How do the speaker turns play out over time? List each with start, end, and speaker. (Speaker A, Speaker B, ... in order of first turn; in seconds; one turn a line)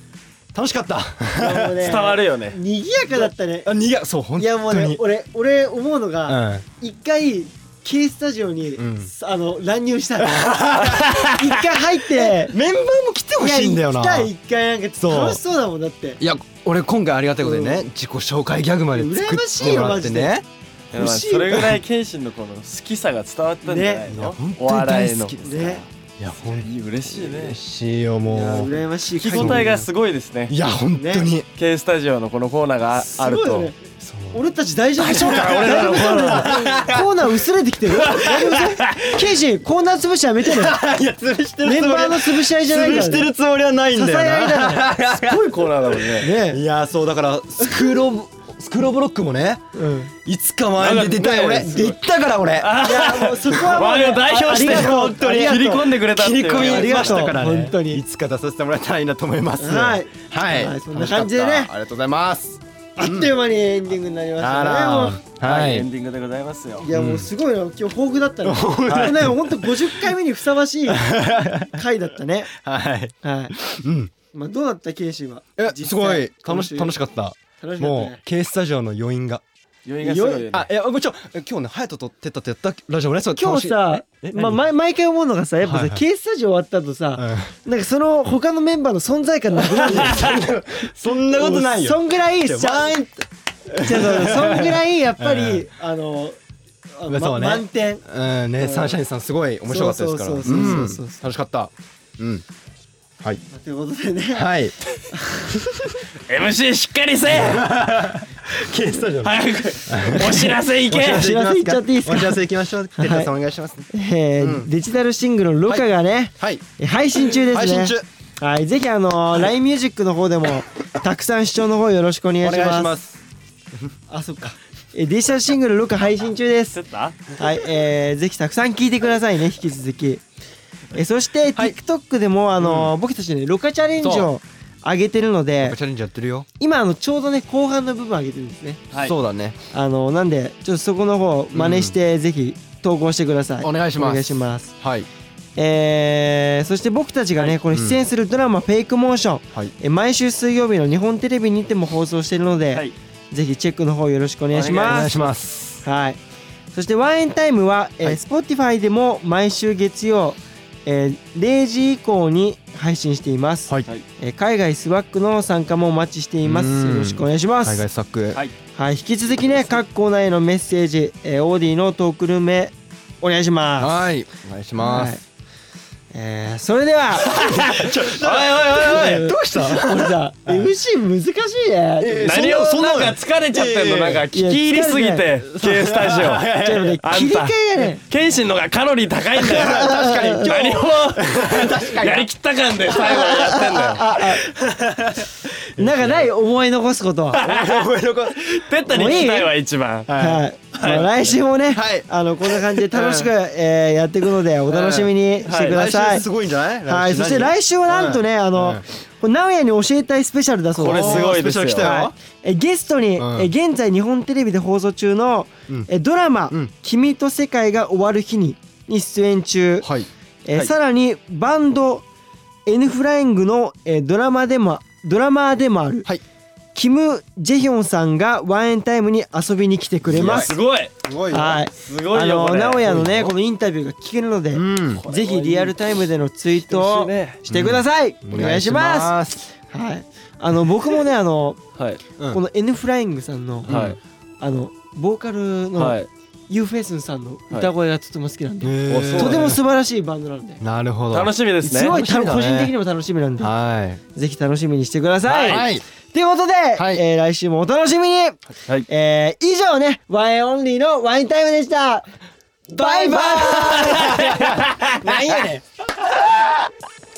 Speaker A: 0.5-1.9
Speaker B: 1.4-3.7
Speaker C: 1.6-2.6
Speaker A: 3.6-5.0
Speaker B: 4.4-12.6
Speaker A: 6.3-6.6
Speaker A: 8.8-9.1
Speaker A: 10.2-11.6
Speaker A: 12.2-14.3
Speaker B: 13.4-16.2
Speaker A: 14.9-15.4
Speaker A: 16.2-20.4
Speaker B: 17.4-17.8
Speaker B: 18.9-20.3
Speaker B: 20.9-21.8
Speaker C: 20.9-25.4
Speaker B: 23.7-24.1
Speaker A: 24.1-28.8
Speaker B: 25.4-25.8
Speaker C: 26.5-27.6
Speaker B: 28.3-29.8
Speaker C: 29.2-30.6
Speaker A: 29.3-29.9
Speaker A: 30.5-31.5
Speaker B: 30.9-31.3
Speaker C: 31.5-33.7
Speaker B: 33.0-33.8
Speaker A: 34.0-34.4
Speaker B: 34.3-40.8
Speaker A: 35.0-37.2
Speaker C: 35.0-36.7
Speaker A: 38.0-39.0
Speaker A: 40.4-45.6
Speaker B: 41.6-43.3
Speaker B: 43.9-44.9
Speaker C: 45.1-46.3
Speaker B: 46.2-46.6
Speaker A: 46.2-49.6
Speaker B: 49.7-50.1
Speaker A: 50.1-53.1
Speaker C: 50.8-51.9
Speaker C: 52.6-57.3
Speaker B: 52.8-55.9
Speaker A: 54.3-63.3
Speaker B: 56.6-58.0
Speaker B: 59.6-61.7
Speaker B: 63.0-65.2
Speaker A: 64.4-65.9
Speaker C: 65.4-66.9
Speaker B: 66.8-72.5
Speaker A: 66.9-67.3
Speaker A: 68.4-69.8
Speaker C: 68.9-69.1
Speaker A: 70.9-71.8
Speaker A: 72.5-74.1
Speaker B: 73.2-73.5
Speaker B: 74.3-76.9
Speaker A: 75.6-79.4
Speaker B: 77.6-78.2
Speaker C: 79.8-80.7
Speaker B: 80.0-80.5
Speaker A: 80.5-84.6
Speaker B: 83.3-90.4
Speaker A: 85.6-86.0
Speaker A: 87.2-87.5
Speaker A: 89.7-93.2
Speaker B: 91.2-93.1
Speaker A: 93.7-95.7
Speaker B: 93.7-96.3
Speaker B: 97.0-98.0
Speaker A: 97.1-102.4
Speaker B: 98.6-99.0
Speaker B: 99.7-101.2
Speaker B: 103.5-104.5
Speaker A: 104.3-104.8
Speaker D: 106.3-107.6
Speaker A: 107.3-113.9
Speaker D: 109.2-111.1
Speaker C: 110.4-111.2
Speaker B: 110.9-112.4
Speaker B: 113.0-113.3
Speaker B: 113.9-123.0
Speaker A: 114.4-114.7
Speaker A: 116.4-116.6
Speaker A: 117.2-118.0
Speaker A: 122.4-123.2
Speaker B: 124.1-126.8
Speaker C: 126.7-127.3
Speaker B: 127.4-130.2
Speaker B: 130.9-135.8
Speaker A: 132.6-132.9
Speaker A: 134.0-134.3
Speaker A: 135.6-136.5
Speaker B: 136.6-138.8
Speaker A: 139.0-139.6
Speaker B: 139.7-144.7
Speaker A: 141.5-141.9
Speaker A: 143.6-145.1
Speaker B: 145.6-155.1
Speaker A: 147.7-148.0
Speaker C: 154.5-155.2
Speaker A: 154.7-155.8
Speaker B: 155.8-156.2
Speaker B: 156.7-167.8
Speaker A: 166.4-168.4
Speaker B: 168.7-174.0
Speaker A: 173.8-175.1
Speaker B: 174.8-175.2
Speaker B: 176.1-182.6
Speaker A: 177.2-180.7
Speaker C: 178.2-179.0
Speaker A: 182.0-184.2
Speaker C: 182.2-194.0
Speaker B: 184.3-185.3
Speaker A: 185.5-186.9
Speaker B: 186.5-188.0
Speaker A: 189.4-192.3
Speaker B: 189.6-190.5
Speaker A: 192.9-196.2
Speaker B: 193.9-194.4
Speaker B: 195.8-197.4
Speaker C: 197.3-197.9
Speaker A: 197.4-199.2
Speaker C: 198.4-200.1
Speaker B: 198.9-199.5
Speaker A: 200.1-200.4
Speaker B: 200.2-206.2
Speaker C: 200.8-201.2
Speaker A: 201.7-202.8
Speaker C: 204.7-205.8
Speaker A: 205.7-208.8
Speaker B: 206.9-219.9
Speaker C: 210.8-211.9
Speaker A: 210.8-212.1
Speaker A: 213.2-213.5
Speaker A: 219.8-220.1
Speaker B: 220.4-222.0
Speaker B: 222.7-226.1
Speaker B: 226.7-230.6
Speaker C: 230.1-230.9
Speaker A: 230.1-231.6
Speaker B: 231.3-241.6
Speaker C: 231.4-233.3
Speaker A: 234.5-235.0
Speaker C: 235.0-236.0
Speaker C: 236.7-237.4
Speaker A: 237.4-239.4
Speaker B: 242.3-243.8
Speaker A: 243.7-244.0
Speaker C: 243.7-244.0
Speaker B: 244.4-250.6
Speaker C: 245.8-246.1
Speaker A: 248.6-249.6
Speaker C: 248.9-249.6
Speaker A: 250.6-252.7
Speaker C: 251.1-252.0
Speaker B: 251.6-253.5
Speaker A: 253.4-254.0
Speaker B: 254.1-262.1
Speaker C: 255.3-255.6
Speaker A: 255.4-255.8
Speaker A: 256.8-257.0
Speaker A: 262.7-266.5
Speaker B: 262.7-265.5